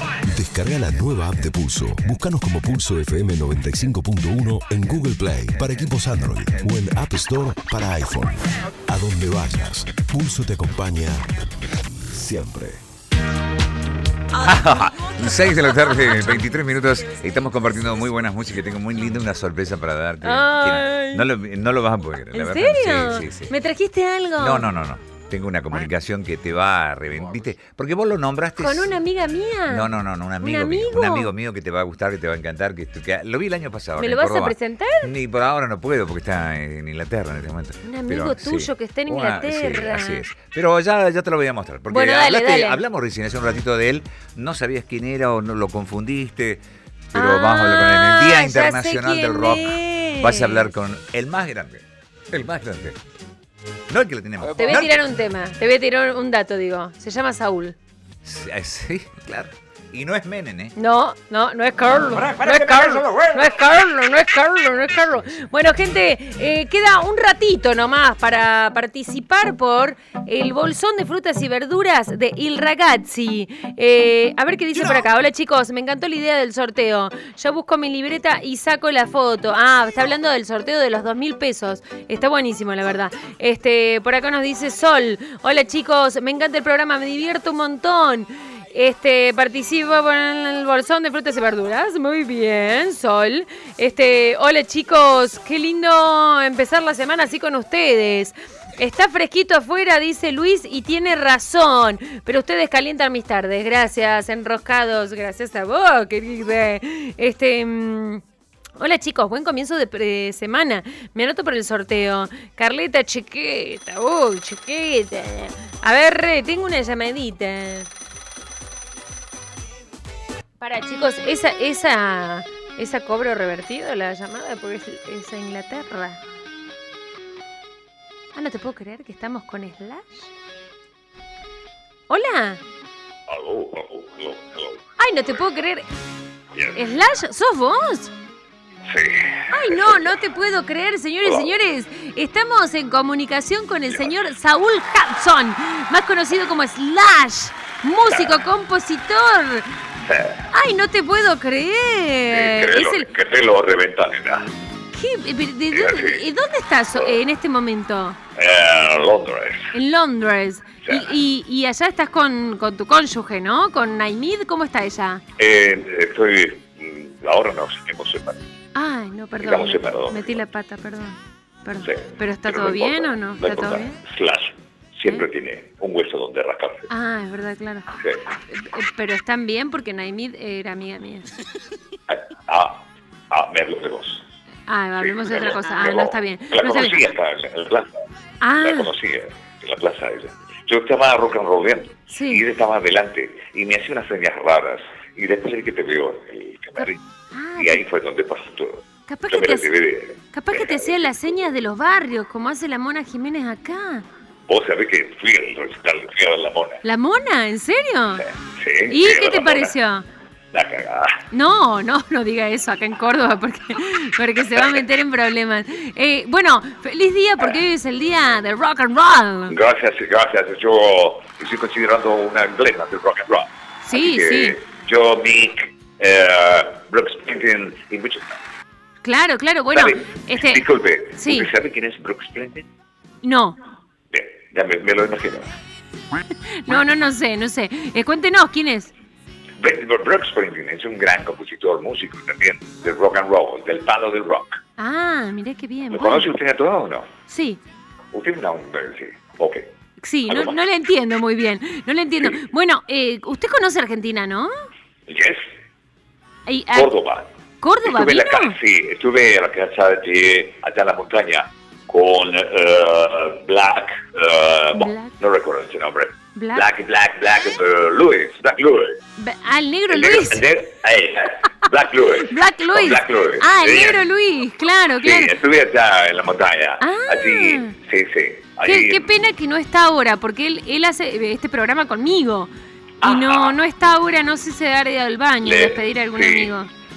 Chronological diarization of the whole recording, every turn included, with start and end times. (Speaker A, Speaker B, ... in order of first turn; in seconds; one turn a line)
Speaker A: 0.2-11.4
Speaker A: 12.0-12.8
Speaker B: 14.3-23.5
Speaker C: 20.2-21.3
Speaker C: 22.3-24.7
Speaker B: 24.4-28.9
Speaker C: 28.6-31.3
Speaker B: 29.7-53.0
Speaker C: 34.0-35.1
Speaker C: 37.8-40.3
Speaker C: 41.9-42.8
Speaker C: 47.1-50.7
Speaker B: 53.9-54.9
Speaker C: 54.5-57.8
Speaker B: 58.2-60.7
Speaker C: 60.8-108.2
Speaker B: 62.2-63.4
Speaker C: 108.8-117.9
Speaker C: 120.6-126.2
Speaker C: 128.3-130.3
Speaker C: 132.1-132.6
Speaker D: 133.3-135.4
Speaker C: 135.0-135.8
Speaker D: 136.5-137.0
Speaker C: 136.7-138.1
Speaker D: 138.9-140.1
Speaker C: 139.5-149.7
Speaker D: 141.2-141.5
Speaker D: 143.9-144.1
Speaker D: 148.1-148.4
Speaker D: 150.0-150.4
Speaker C: 150.5-153.1
Speaker D: 152.3-154.5
Speaker C: 154.9-158.2
Speaker D: 155.7-156.2
Speaker D: 156.9-157.2
Speaker D: 158.3-159.7
Speaker C: 159.7-165.2
Speaker D: 160.8-161.1
Speaker D: 165.4-168.4
Speaker C: 168.7-174.0
Speaker D: 169.4-170.4
Speaker D: 171.8-176.9
Speaker C: 176.9-177.9
Speaker D: 177.9-178.2
Speaker C: 178.5-181.3
Speaker D: 182.1-184.2
Speaker C: 184.7-187.1
Speaker D: 185.0-187.9
Speaker C: 188.4-188.9
Speaker D: 188.6-197.0
Speaker C: 192.1-192.4
Speaker C: 196.8-197.8
Speaker D: 197.6-201.3
Speaker C: 199.1-199.7
Speaker C: 200.3-204.1
Speaker D: 204.5-206.8
Speaker C: 206.8-208.2
Speaker D: 208.2-209.7
Speaker C: 208.9-210.1
Speaker D: 210.5-211.2
Speaker C: 211.3-219.5
Speaker D: 214.5-214.8
Speaker D: 219.5-228.4
Speaker C: 223.8-224.6
Speaker C: 229.0-231.5
Speaker D: 229.7-232.7
Speaker C: 233.2-233.6
Speaker D: 234.1-235.5
Speaker C: 236.4-238.9
Speaker D: 239.6-244.6
Speaker C: 244.8-246.3
Speaker D: 245.9-247.1
Speaker C: 247.3-247.6
Speaker D: 248.1-249.6
Speaker C: 250.0-254.5
Speaker D: 250.3-250.6
Speaker D: 255.1-255.4
Speaker C: 256.4-256.9
Speaker D: 256.7-257.3
Speaker C: 257.6-258.6
Speaker D: 257.8-269.0
Speaker C: 264.7-265.1
Speaker C: 266.3-266.6
Speaker C: 269.2-270.6
Speaker D: 269.9-274.0
Speaker C: 271.6-275.4
Speaker D: 275.0-279.1
Speaker C: 276.8-277.7
Speaker C: 278.6-286.7
Speaker D: 283.0-283.6
Speaker D: 285.4-286.5